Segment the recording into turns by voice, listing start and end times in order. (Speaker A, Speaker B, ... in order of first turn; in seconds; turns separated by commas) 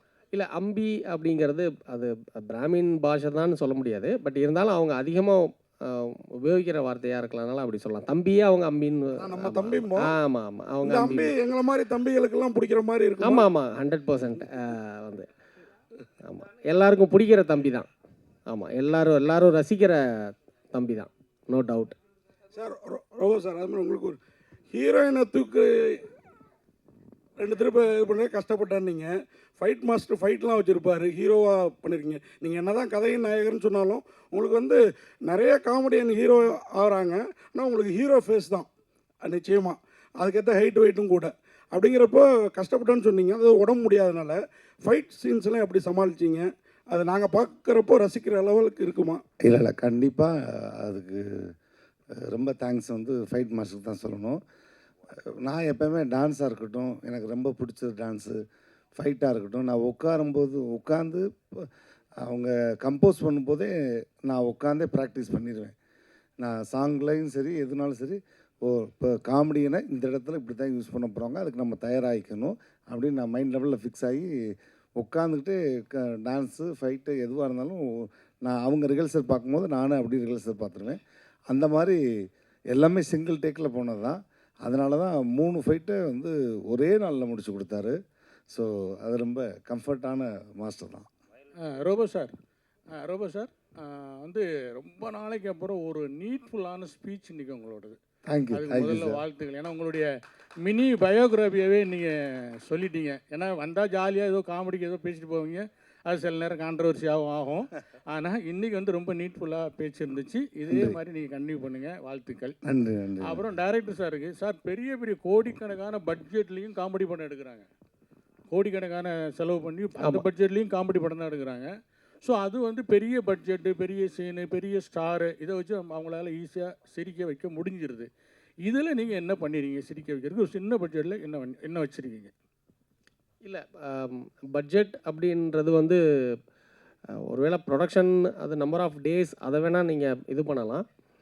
Speaker A: 0.3-11.3, Speaker B: 9.2-10.1, Speaker B: 10.8-13.5, Speaker A: 13.2-15.2, Speaker A: 16.2-17.9, Speaker A: 18.5-21.9, Speaker B: 22.5-24.2, Speaker B: 24.7-26.0, Speaker B: 27.4-38.7, Speaker B: 39.2-49.2, Speaker C: 49.4-51.5, Speaker C: 52.3-54.4, Speaker C: 55.4-58.4, Speaker C: 59.0-61.7, Speaker C: 62.2-63.7, Speaker C: 64.3-65.7, Speaker C: 66.4-81.0, Speaker C: 81.5-82.0, Speaker C: 82.7-87.9, Speaker C: 88.5-91.0, Speaker D: 91.6-92.3, Speaker D: 92.9-98.0, Speaker C: 98.3-99.2, Speaker D: 98.5-100.1, Speaker D: 100.6-102.1, Speaker D: 102.7-112.5, Speaker C: 110.7-111.0, Speaker C: 112.6-113.4, Speaker D: 113.2-117.7, Speaker D: 118.5-121.7, Speaker A: 120.0-120.3, Speaker D: 122.2-128.1, Speaker D: 128.6-132.3, Speaker A: 133.4-136.0, Speaker A: 137.3-140.8